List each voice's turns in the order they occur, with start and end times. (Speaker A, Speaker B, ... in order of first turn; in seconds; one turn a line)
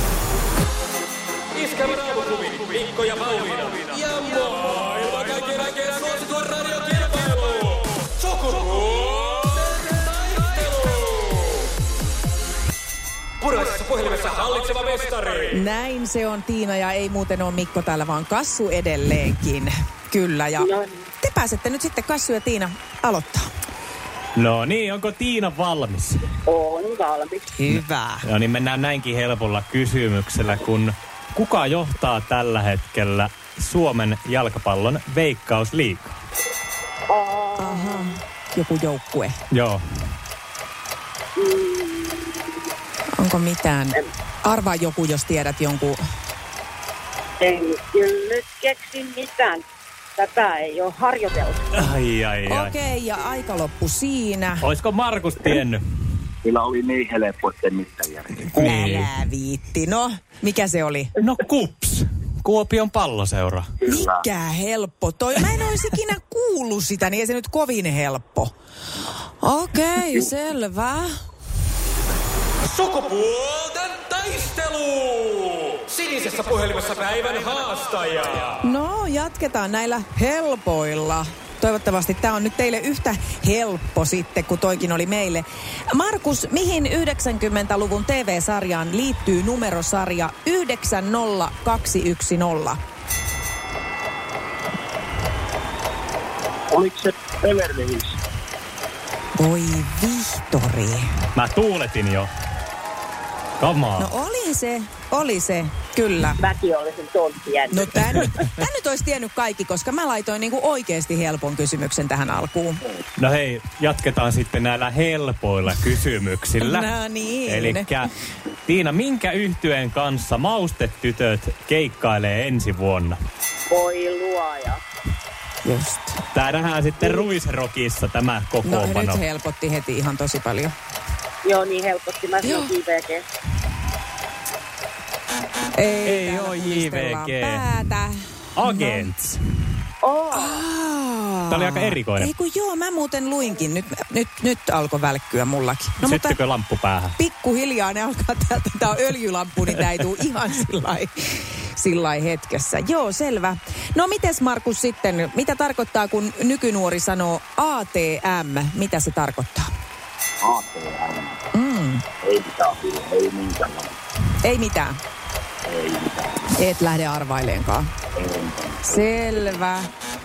Speaker A: 1.6-11.1
Speaker A: 13.4-15.5
Speaker B: 15.5-20.7
Speaker C: 20.6-21.0
Speaker B: 21.2-23.5
Speaker D: 24.4-26.3
Speaker C: 26.5-27.5
Speaker B: 27.5-28.3
Speaker D: 27.7-36.2
Speaker C: 37.1-38.0
Speaker B: 37.6-39.3
Speaker D: 39.5-39.8
Speaker C: 41.4-42.5
Speaker B: 43.2-46.0
Speaker C: 47.4-49.6
Speaker C: 50.2-51.6
Speaker D: 51.7-52.7
Speaker B: 52.5-54.6
Speaker D: 54.6-55.8
Speaker E: 56.4-58.6
Speaker D: 58.5-59.1
Speaker B: 58.6-61.1
Speaker D: 61.2-63.7
Speaker B: 63.8-68.5
Speaker E: 63.9-64.2
Speaker B: 69.4-71.1
Speaker A: 72.8-75.0
Speaker A: 75.7-78.4
Speaker B: 78.6-92.8
Speaker E: 96.7-98.1
Speaker C: 97.4-97.9
Speaker B: 99.4-101.1
Speaker D: 101.3-102.3
Speaker D: 103.6-104.1
Speaker B: 104.0-106.4
Speaker C: 106.4-108.2
Speaker B: 107.7-112.8
Speaker D: 113.2-116.9
Speaker B: 116.6-117.8
Speaker D: 117.5-118.1
Speaker D: 118.6-123.2
Speaker C: 123.7-124.8
Speaker B: 125.6-126.2
Speaker D: 126.3-129.2
Speaker B: 128.6-130.7
Speaker C: 131.4-133.2
Speaker B: 132.4-132.7
Speaker B: 135.7-139.1
Speaker D: 136.0-137.6
Speaker D: 138.6-139.6
Speaker C: 140.0-140.6
Speaker B: 140.3-146.4
Speaker D: 141.5-142.3
Speaker D: 146.0-147.2
Speaker B: 147.2-159.7
Speaker E: 160.4-161.4
Speaker B: 161.5-162.0
Speaker E: 162.2-163.9
Speaker B: 164.4-165.0
Speaker E: 165.7-166.4
Speaker B: 166.5-167.9
Speaker E: 168.2-169.6
Speaker B: 168.8-169.9